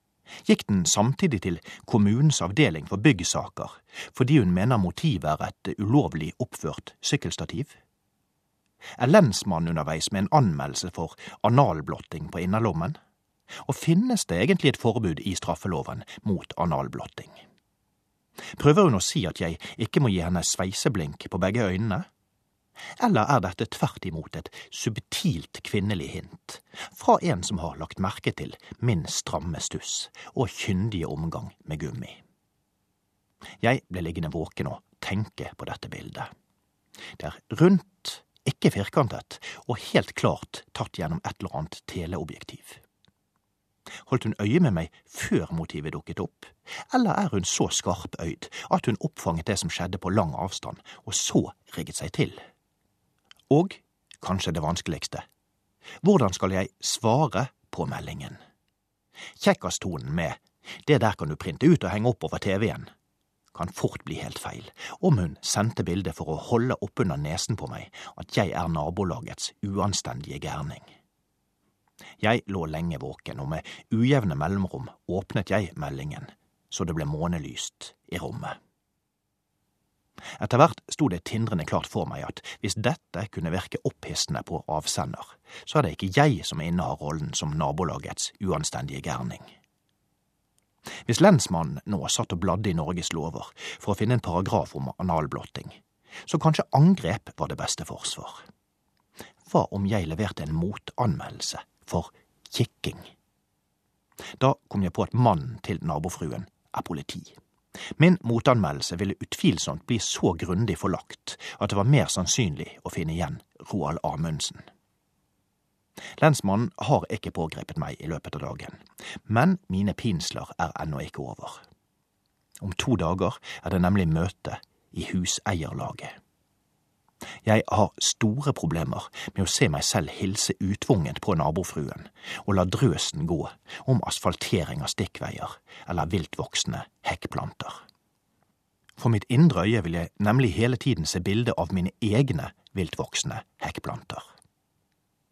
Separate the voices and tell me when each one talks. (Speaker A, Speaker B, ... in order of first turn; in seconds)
Speaker A: 0.4-7.7, 9.0-13.0, 13.6-17.4, 18.5-22.1, 23.0-32.2, 33.6-36.3, 37.2-42.8, 44.0-52.4, 53.5-55.2, 56.0-58.4, 59.4-62.9, 63.5-70.9, 72.2-78.6, 80.4-89.5, 91.0-98.4, 99.5-103.1, 104.4-107.3, 108.0-114.6, 116.2-121.6, 122.6-126.2, 127.4-137.8, 139.0-144.2